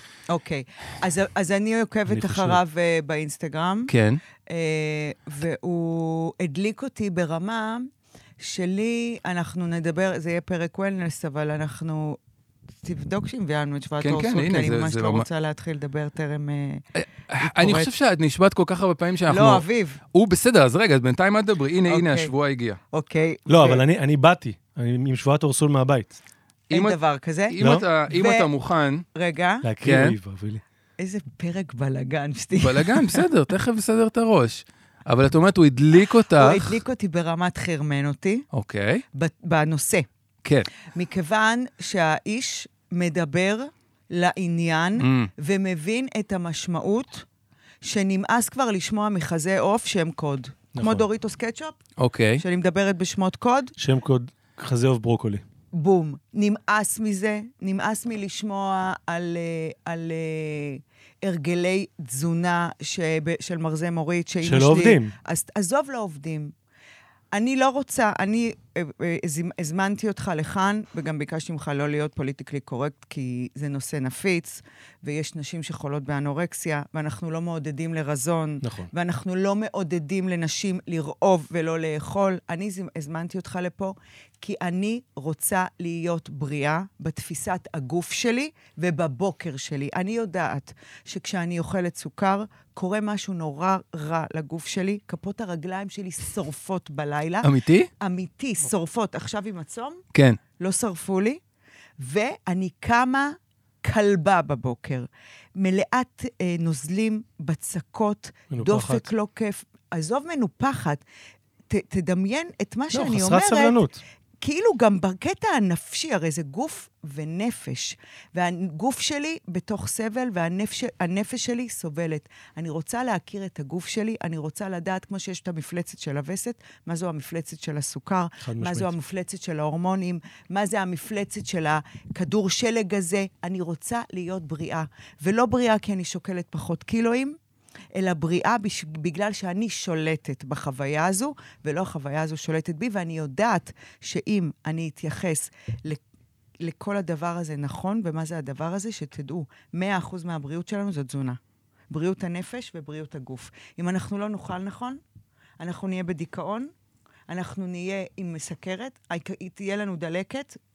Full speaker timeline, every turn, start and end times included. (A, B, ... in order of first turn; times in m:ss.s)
0:00.3-0:03.9 A
0:02.1-0:02.6 B
0:03.9-0:04.2 C
0:04.5-0:07.9 A
0:08.4-0:12.2 A
0:12.8-0:16.9 A
0:14.0-0:15.3 C
0:17.0-0:22.8 C
0:17.4-0:17.9 A
0:19.3-0:20.0 A
0:21.9-0:22.3 A
0:22.9-0:23.8 A
0:23.5-0:26.2 B
0:26.7-0:27.6 A
0:26.7-0:29.0 C
0:27.6-0:27.8 B
0:28.1-0:28.5 A
0:29.1-0:29.7 A
0:29.6-0:30.6 B
0:29.8-0:30.2 C
0:31.0-0:33.2 A
0:32.6-0:36.8 C
0:36.4-0:38.5 A
0:38.5-0:39.0 C
0:39.1-0:40.1 A
0:40.9-0:47.3 A
0:45.0-0:45.3 C
0:47.8-0:51.8 A
0:50.8-0:51.0 B
0:52.0-0:52.4 C
0:52.4-0:53.7 A
0:53.8-0:55.4 B
0:55.7-1:06.5 A
1:04.4-1:05.1 B
1:07.3-1:40.0 A
1:18.6-1:18.9 B
1:37.4-1:37.9 C
1:40.1-1:40.4 C
1:40.6-1:41.4 A
1:42.0-1:51.0 A
1:48.5-1:49.1 B
1:51.7-1:53.8 A
1:52.9-1:54.0 B
1:54.4-2:17.4 A
2:08.4-2:08.9 B
2:17.9-2:26.0 A
2:26.6-2:31.4 A
2:31.9-2:35.0 A
2:35.6-2:36.7 A
2:37.3-2:40.6 A